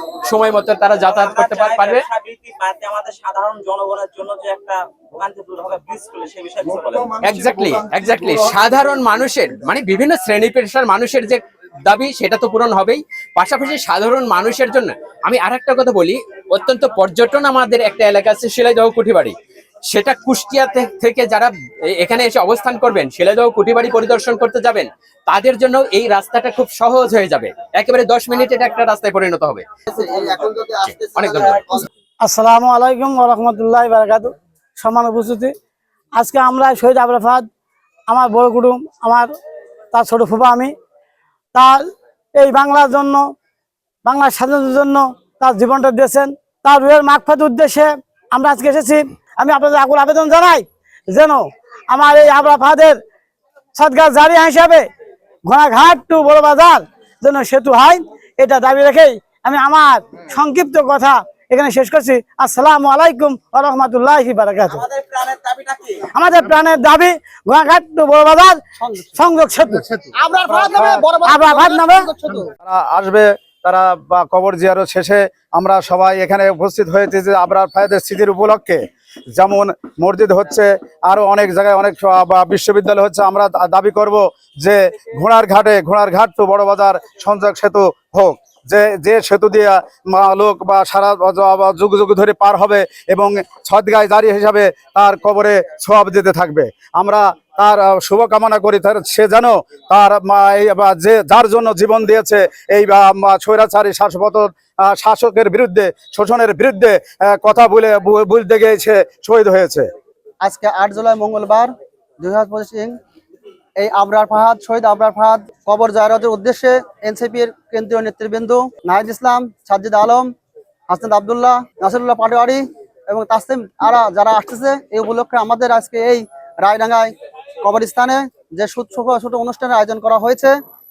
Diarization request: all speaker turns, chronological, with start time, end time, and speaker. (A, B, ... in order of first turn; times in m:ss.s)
0:00.2-0:02.0 A
0:01.1-0:07.2 B
0:07.2-0:19.3 A
0:19.9-0:29.6 A
0:29.9-0:31.8 C
0:30.8-0:31.6 A
0:32.2-0:35.5 D
0:36.1-0:37.5 D
0:38.1-0:39.3 D
0:39.9-0:40.7 D
0:41.5-0:43.3 D
0:44.0-0:53.0 D
0:53.8-0:54.9 D
0:55.4-1:04.8 D
1:04.7-1:06.1 B
1:06.1-1:08.6 D
1:08.8-1:09.2 C
1:09.1-1:09.9 D
1:10.2-1:12.5 C
1:10.5-1:11.0 E
1:11.2-1:12.1 D
1:12.6-1:18.8 E
1:19.3-1:49.8 E
1:50.4-1:53.0 C
1:53.8-2:00.3 C
2:00.9-2:10.5 C